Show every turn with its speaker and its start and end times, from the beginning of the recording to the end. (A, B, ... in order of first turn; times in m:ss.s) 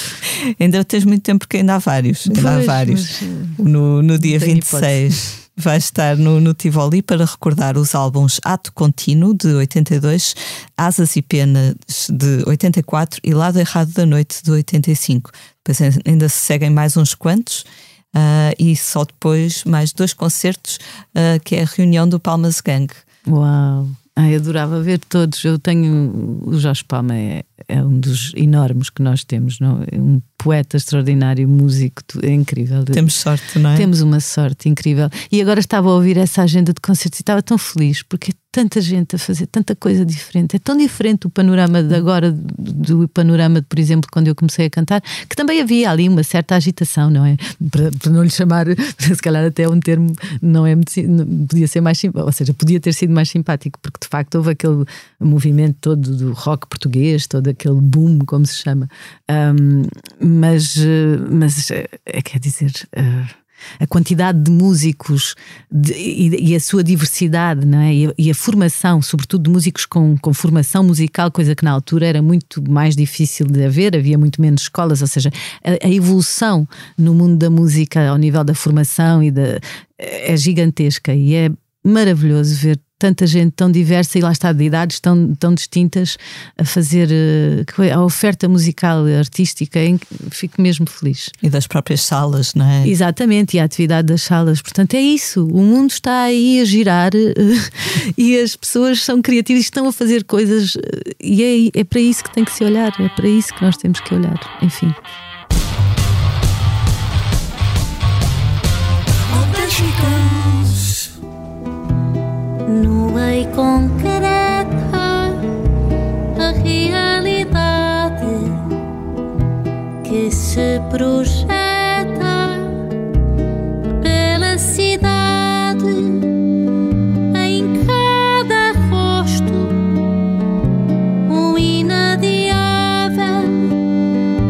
0:00.2-0:23.0 A
0:02.2-0:03.6 B
0:04.2-0:05.3 B
0:23.2-0:33.1 B
0:32.9-0:33.9 A
0:33.7-1:31.3 B
1:31.4-1:32.9 A
1:32.8-1:45.0 B
1:49.3-1:50.8 C
1:52.6-1:55.5 C
1:56.4-1:58.7 C
2:00.0-2:02.8 C
2:04.0-2:06.3 C
2:07.3-2:10.0 C
2:11.3-2:13.8 C